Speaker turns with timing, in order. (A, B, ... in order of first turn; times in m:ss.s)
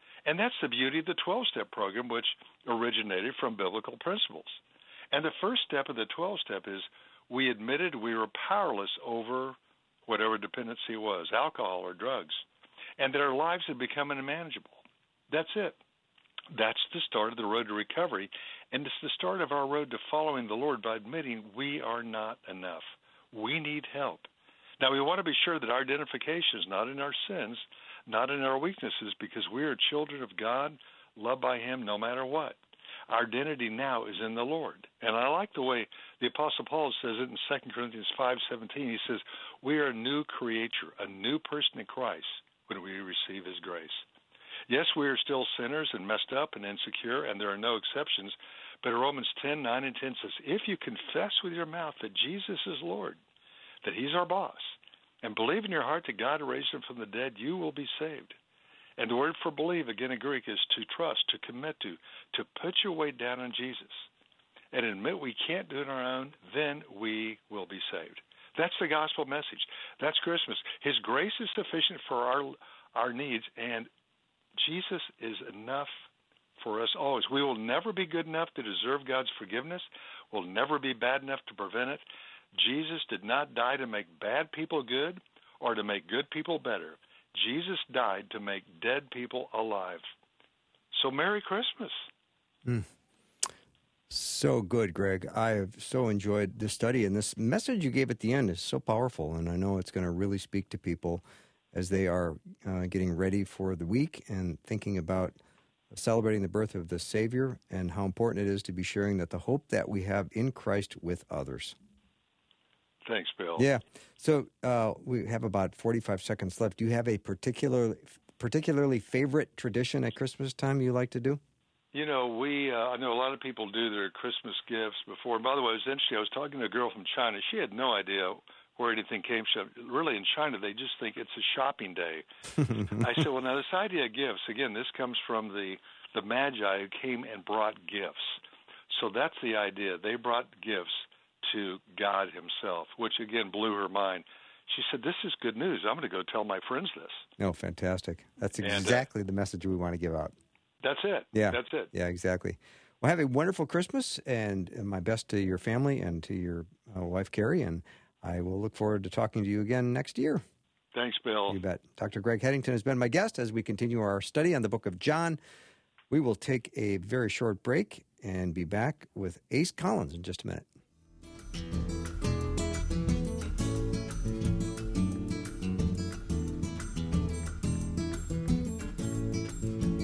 0:00.2-0:12.4 A
0:13.0-0:15.8 A
0:16.5-0:24.3 A
0:24.8-0:44.0 A
0:44.7-0:53.2 A
0:53.8-0:58.4 A
0:59.0-1:04.1 A
1:04.7-1:13.9 A
1:14.6-1:15.9 A
1:16.6-1:30.1 A
1:30.9-1:32.1 A
1:34.1-1:45.4 B
1:45.9-1:51.8 B
1:53.0-1:53.7 A
1:53.6-2:01.4 B
2:01.9-2:27.2 A
2:27.4-2:30.3 B
2:28.6-2:29.1 A
2:30.8-2:31.9 A
2:31.3-2:40.4 B
2:40.9-2:41.6 A
2:41.5-2:45.4 B
2:46.1-2:50.7 B